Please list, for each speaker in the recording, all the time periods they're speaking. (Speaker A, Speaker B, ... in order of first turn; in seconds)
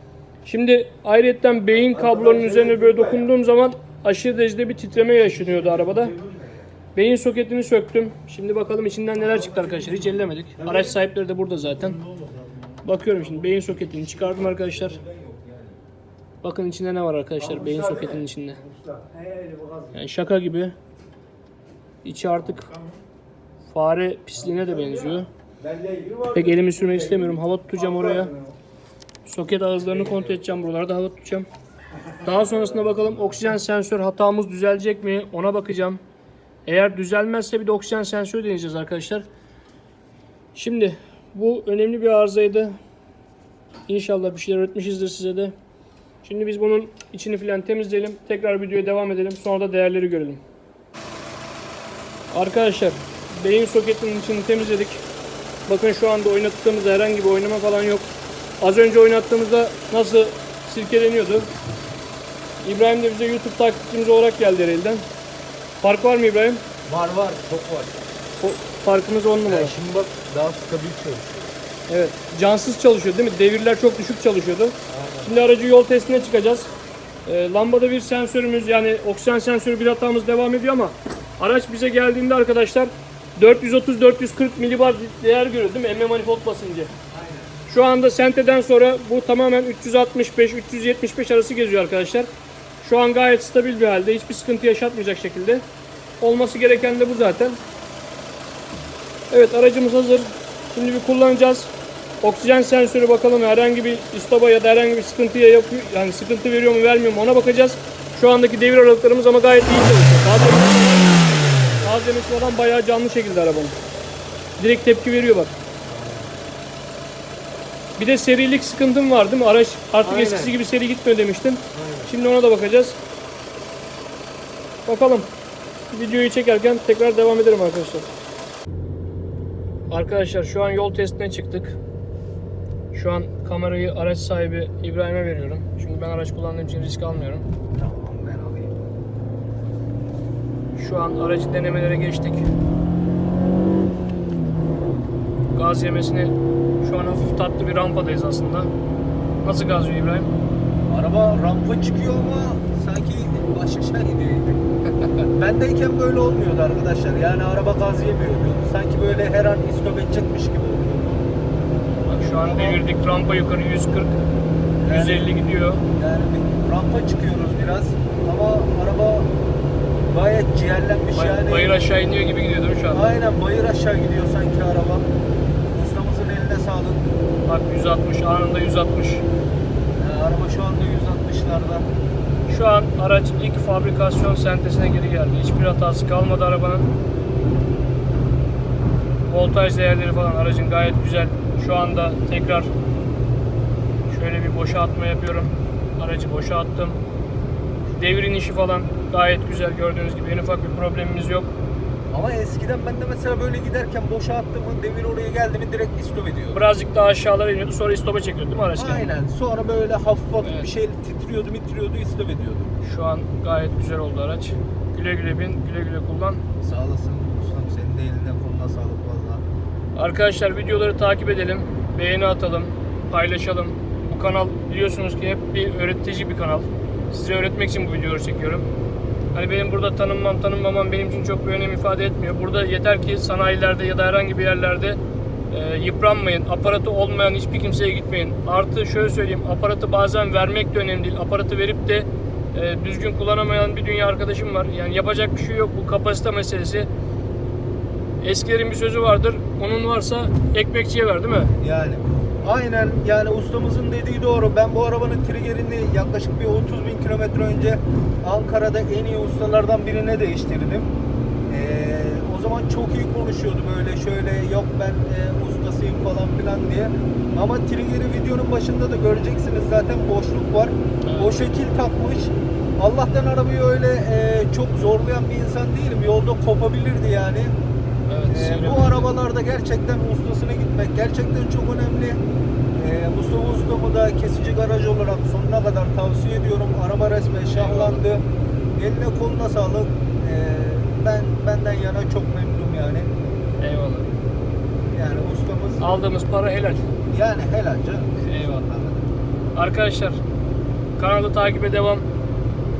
Speaker A: 0.4-6.1, 6.9-12.0, 12.8-15.0, 16.4-18.6, 19.9-20.7, 22.0-22.7, 23.7-25.3, 26.3-28.3, 29.2-31.5, 32.2-36.0, 36.6-39.2, 40.5-42.8, 43.9-45.5, 46.2-50.4, 52.3-55.0, 55.7-58.1, 58.6-61.5, 62.6-65.0, 65.8-66.6, 68.4-69.7, 71.9-76.7, 77.2-86.9, 87.7-92.3, 92.8-95.6, 96.2-97.6, 99.3-101.7, 102.2-113.8, 114.6-115.5, 118.0-123.0, 124.8-125.3, 125.9-128.1, 129.9-131.8, 132.9-137.5, 140.7-142.4, 145.5-148.7, 149.4-150.3, 162.0-164.2, 164.8-165.8, 171.1-173.1, 177.4-179.2, 182.5-186.9, 189.3-192.7, 194.1-197.0, 197.9-201.5, 206.5-209.2, 210.4-210.7, 212.8-216.4, 219.9-228.7, 229.3-235.0, 235.5-246.9, 248.2-251.5, 271.0-271.4, 278.1-279.1, 287.5-288.0, 293.6-294.1, 295.8-296.9, 298.2-298.7, 299.5-300.2, 301.0-302.1
Speaker B: 1.7-3.3, 5.2-6.7, 9.1-11.0, 11.7-15.8, 17.4-19.9, 22.6-22.9, 24.4-28.5, 29.8-30.3, 66.8-67.9, 69.5-71.5, 74.9-75.3, 87.1-87.5, 115.8-116.4, 120.0-120.5, 121.7-122.1, 137.7-138.8, 150.9-161.3, 162.3-162.8, 164.8-165.3, 165.9-169.3, 170.1-171.8, 172.9-175.1, 175.7-177.1, 180.0-181.9, 202.1-206.6, 208.7-212.8, 216.6-219.4, 251.6-260.9, 261.5-277.5, 278.3-282.2, 282.7-288.2, 288.7-293.1, 294.9-295.8, 297.1-299.1